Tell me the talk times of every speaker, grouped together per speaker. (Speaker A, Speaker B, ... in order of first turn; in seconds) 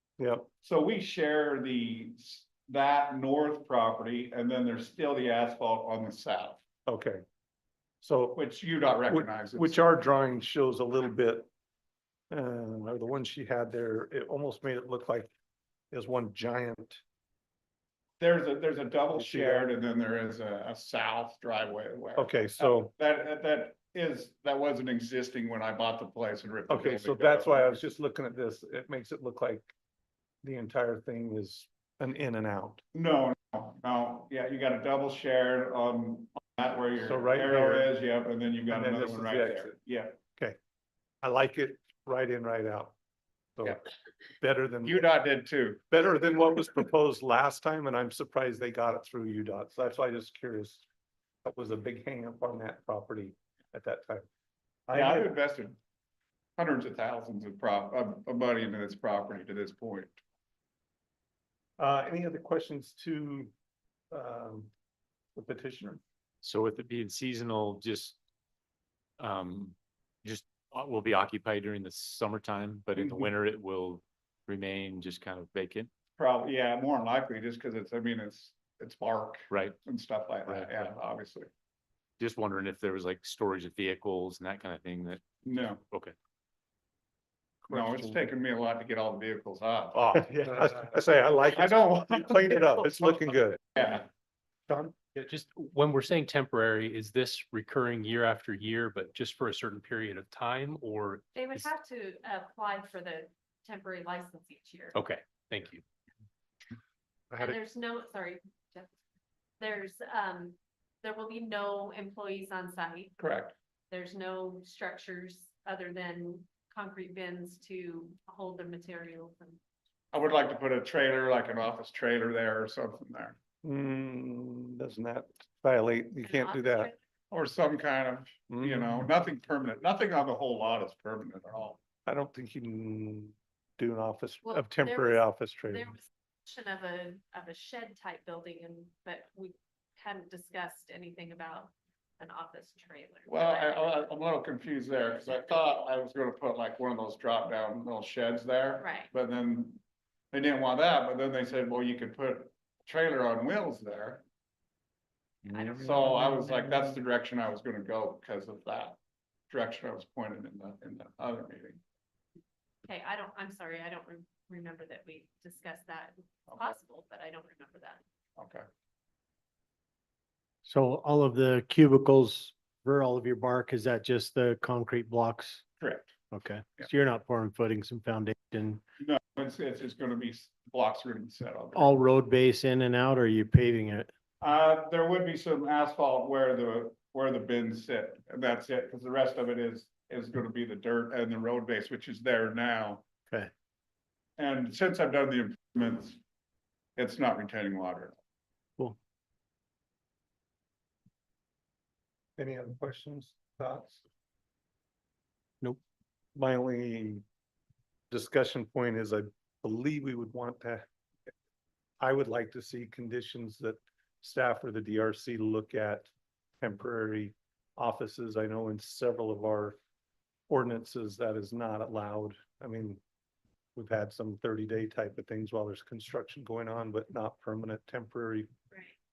Speaker A: 0.2-0.5, 6.9-7.2, 8.0-8.4, 9.1-11.5, 12.3-15.3, 15.9-17.0, 19.1-19.7, 22.2-22.9, 26.7-29.7, 30.4-32.8, 37.0-37.9, 38.7-39.8, 41.2-43.0, 44.4-45.1, 45.9-50.9, 51.5-54.3, 54.9-55.4, 61.8-63.5, 64.1-64.7, 65.3-66.0, 90.0-94.0, 94.7-95.0, 123.6-126.9, 128.5-129.1, 132.1-136.0, 202.4-204.0, 206.3-207.2, 208.1-210.8, 212.0-216.1, 216.6-219.8, 220.5-223.0, 223.8-228.5
Speaker B: 0.6-6.6, 8.3-9.8, 18.2-27.7, 32.9-40.2, 44.8-45.8, 54.9-55.8, 56.6-60.2, 73.0-73.3, 76.2-81.5, 85.5-85.8, 87.7-90.7, 91.5-93.0, 93.8-94.0, 113.2-113.5, 120.1-123.4, 127.3-131.8, 143.3-149.8, 150.3-154.2, 155.5-159.0, 159.5-161.8, 168.4-168.7, 175.8-176.1, 179.0-182.0, 184.4-193.0, 194.4-196.2, 197.0-198.2
Speaker C: 66.4-68.2, 69.2-75.9, 79.5-79.8, 80.5-80.9, 82.2-85.2, 85.8-86.2
Speaker D: 95.2-101.7, 104.9-105.8
Speaker E: 101.3-105.0, 107.4-108.9, 109.6-113.2, 113.9-119.6, 126.2-127.0, 134.4-144.1, 148.8-149.1, 162.8-168.0
Speaker F: 170.7-175.7, 176.3-178.8, 181.7-184.1